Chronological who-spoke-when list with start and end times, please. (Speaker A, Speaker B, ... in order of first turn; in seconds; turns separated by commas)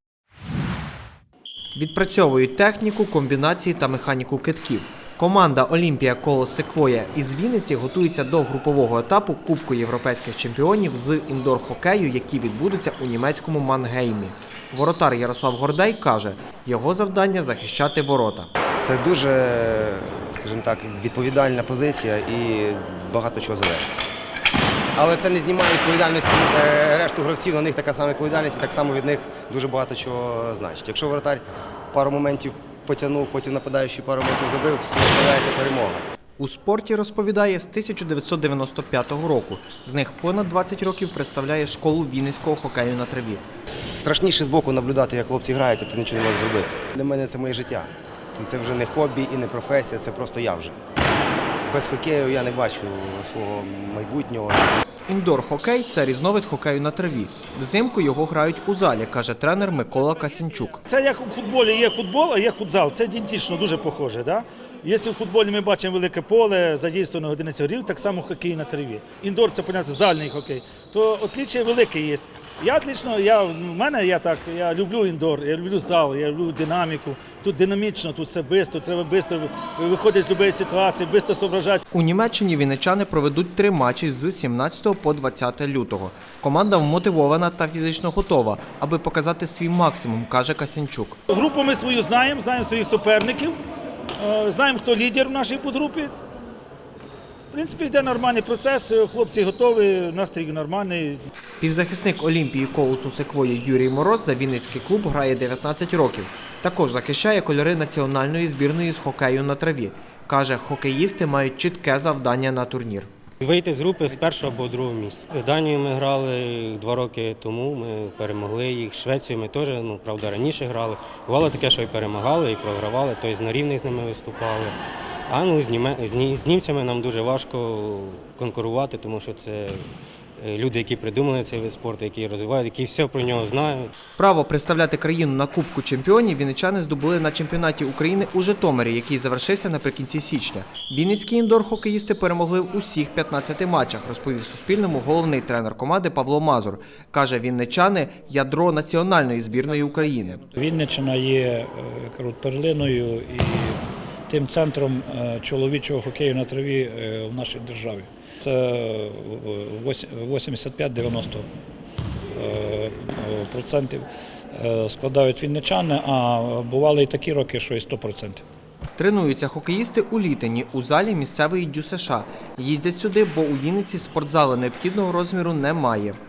Speaker A: 1.8-18.5, Speaker B: 18.8-24.1, Speaker B: 24.9-36.0, Speaker A: 36.4-43.4, Speaker B: 43.7-50.8, Speaker B: 51.6-54.8, Speaker A: 55.1-60.8, Speaker C: 60.9-81.8, Speaker A: 81.9-91.2, Speaker C: 91.3-93.5, Speaker C: 94.2-96.1, Speaker C: 97.5-101.2, Speaker A: 101.6-113.1, Speaker D: 113.4-124.8, Speaker D: 125.3-129.9, Speaker D: 130.4-133.9, Speaker A: 134.2-150.4, Speaker E: 150.5-161.5, Speaker E: 162.3-168.4, Speaker A: 169.0-176.2